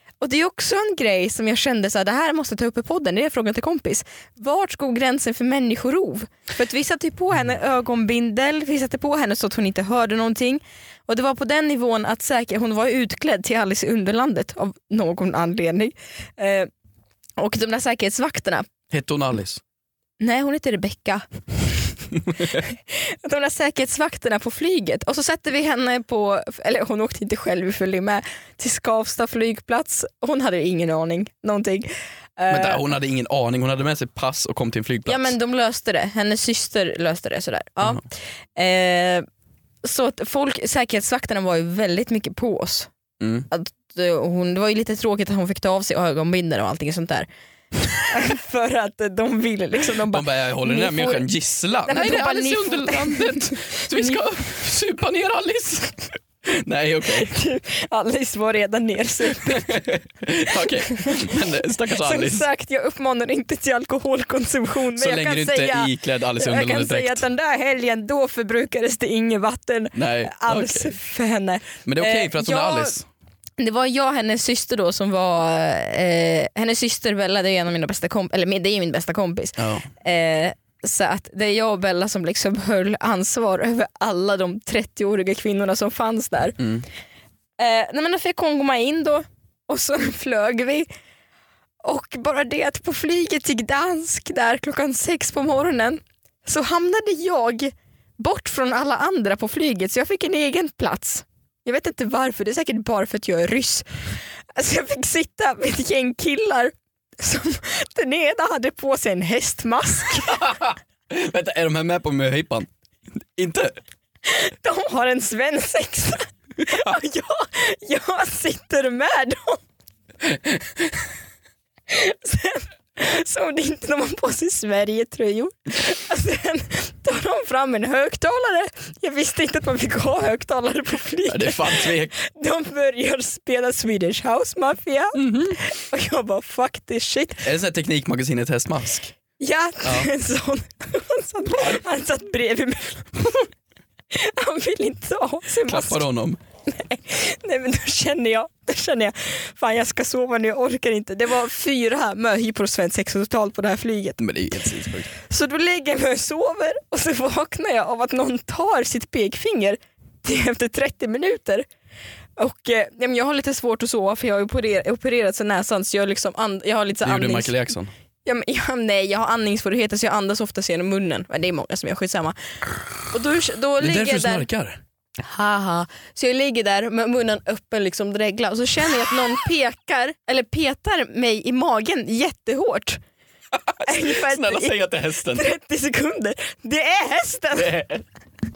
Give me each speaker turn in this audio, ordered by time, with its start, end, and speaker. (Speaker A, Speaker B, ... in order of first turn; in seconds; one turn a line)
Speaker A: 0.2-16.7
Speaker A: 17.4-18.7
Speaker B: 18.9-19.6
Speaker A: 20.2-32.9
Speaker B: 32.5-35.3
Speaker A: 35.1-39.2
Speaker A: 39.8-42.9
Speaker B: 43.2-43.5
Speaker A: 43.5-47.3
Speaker A: 48.0-51.3
Speaker B: 50.1-57.3
Speaker A: 51.8-54.2
Speaker A: 57.2-59.8
Speaker B: 59.4-62.4
Speaker A: 60.5-61.4
Speaker A: 61.9-73.0
Speaker B: 64.9-67.2
Speaker B: 69.9-71.0
Speaker B: 71.8-73.1
Speaker A: 73.6-86.6
Speaker B: 79.6-79.9
Speaker B: 86.6-86.8
Speaker A: 87.6-90.9
Speaker A: 91.8-103.9
Speaker A: 104.5-110.4
Speaker B: 110.3-112.7
Speaker B: 113.3-113.8
Speaker A: 114.2-119.6
Speaker B: 120.3-120.8
Speaker A: 121.9-137.4
Speaker B: 131.3-132.1
Speaker B: 135.2-135.6
Speaker B: 137.4-139.2
Speaker A: 139.4-143.5
Speaker B: 139.8-140.1
Speaker A: 144.1-146.1
Speaker B: 145.7-146.4
Speaker A: 146.7-154.2
Speaker B: 154.2-155.1
Speaker A: 155.1-161.7
Speaker A: 162.4-167.6
Speaker B: 167.0-167.9
Speaker A: 168.2-172.3
Speaker A: 173.1-174.5
Speaker B: 173.8-174.8
Speaker A: 175.2-183.0
Speaker B: 183.6-185.4
Speaker A: 183.8-188.0